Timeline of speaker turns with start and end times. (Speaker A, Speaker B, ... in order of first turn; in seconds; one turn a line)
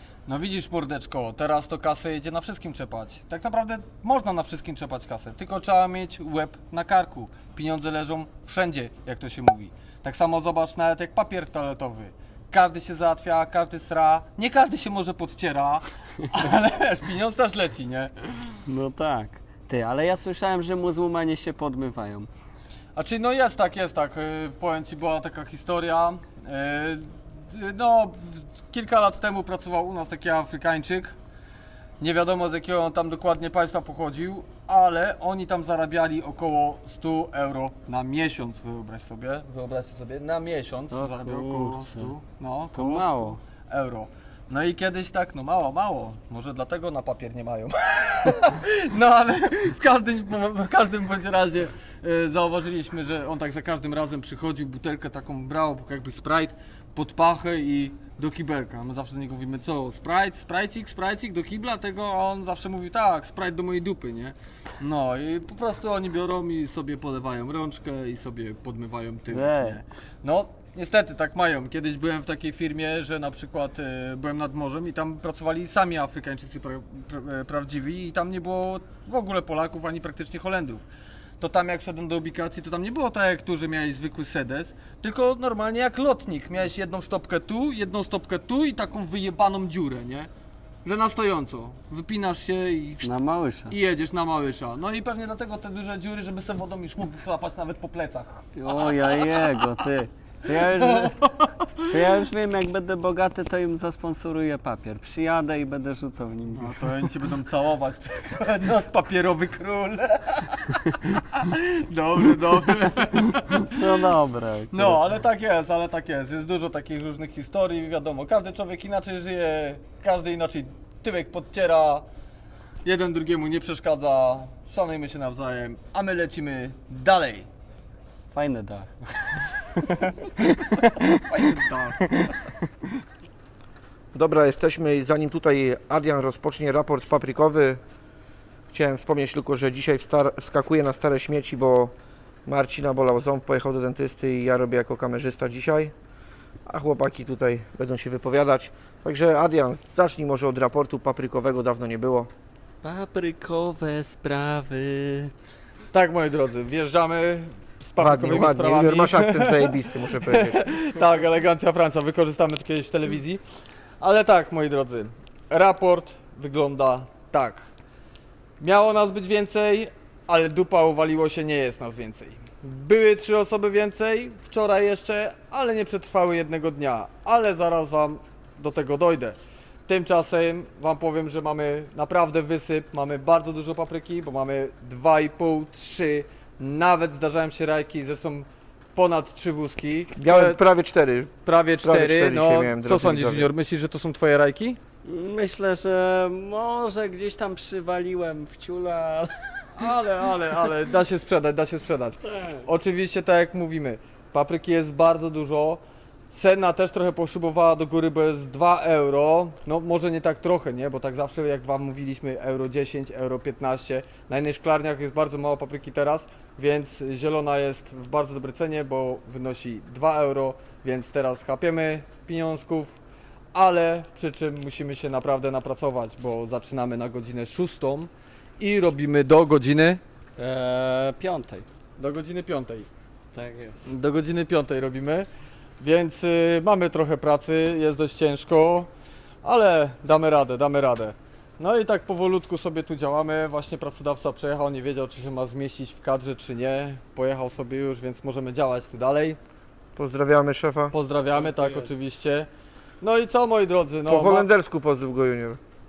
Speaker A: 0.2-18.6
Speaker B: 18.6-22.3
Speaker A: 22.9-31.1
Speaker A: 32.0-80.8
Speaker B: 40.9-42.1
Speaker B: 42.7-43.4
Speaker B: 69.3-69.8
Speaker A: 81.4-90.3
Speaker A: 90.8-93.1
Speaker B: 93.0-93.7
Speaker A: 93.7-99.6
Speaker B: 98.5-101.2
Speaker A: 100.5-101.9
Speaker B: 101.8-106.9
Speaker A: 106.6-113.9
Speaker B: 113.6-115.0
Speaker A: 114.7-122.0
Speaker A: 122.8-127.5
Speaker B: 128.3-130.7
Speaker A: 130.0-132.2
Speaker C: 134.1-137.8
Speaker C: 138.7-141.9
Speaker C: 142.4-145.9
Speaker C: 146.7-152.3
Speaker B: 152.8-155.3
Speaker A: 155.9-163.4
Speaker C: 158.0-160.6
Speaker A: 164.0-167.7
Speaker A: 168.6-190.6
Speaker C: 190.2-193.5
Speaker A: 191.4-194.8
Speaker B: 195.0-199.8
Speaker A: 199.8-223.0
Speaker B: 202.2-202.6
Speaker A: 223.5-230.0
Speaker B: 230.4-231.7
Speaker A: 232.0-232.9
Speaker B: 233.3-233.8
Speaker A: 233.8-235.3
Speaker A: 235.8-238.9
Speaker A: 239.4-249.4
Speaker C: 249.9-250.9
Speaker A: 250.9-252.5
Speaker B: 251.3-251.9
Speaker A: 253.0-254.5
Speaker C: 254.1-255.6